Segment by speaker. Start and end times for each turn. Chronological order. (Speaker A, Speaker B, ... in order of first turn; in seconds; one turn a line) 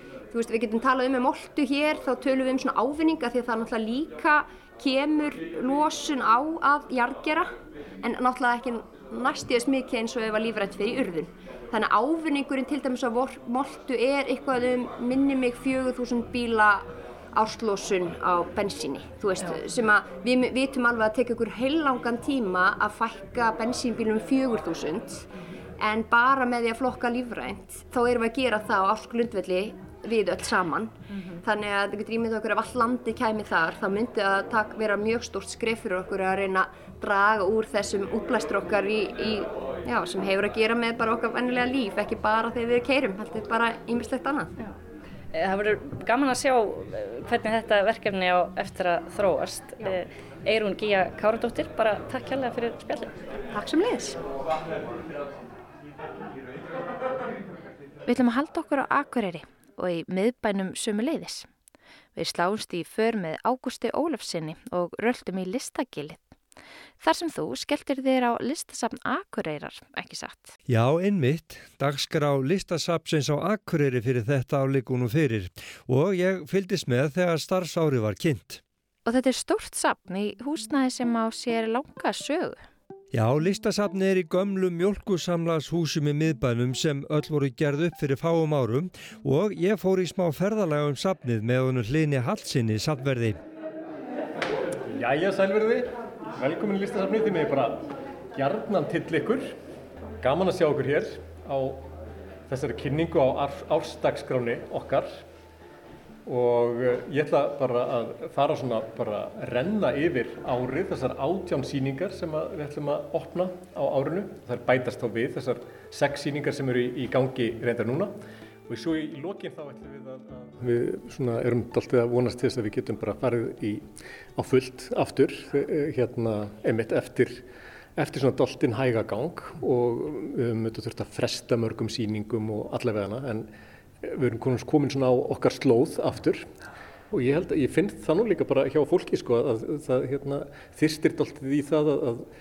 Speaker A: 0.3-7.5
Speaker A: 8.0-25.3
Speaker A: 25.8-44.6
Speaker B: 45.3-53.2
Speaker A: 53.6-54.1
Speaker C: 58.1-61.5
Speaker C: 62.1-66.3
Speaker C: 67.0-70.6
Speaker D: 70.8-78.5
Speaker C: 79.0-82.6
Speaker D: 83.3-88.9
Speaker D: 89.4-93.3
Speaker E: 94.9-99.5
Speaker E: 100.2-101.9
Speaker E: 102.5-105.2
Speaker E: 106.3-118.1
Speaker E: 118.7-123.8
Speaker E: 124.4-127.4
Speaker E: 128.0-133.5
Speaker E: 134.0-136.4
Speaker E: 137.1-142.2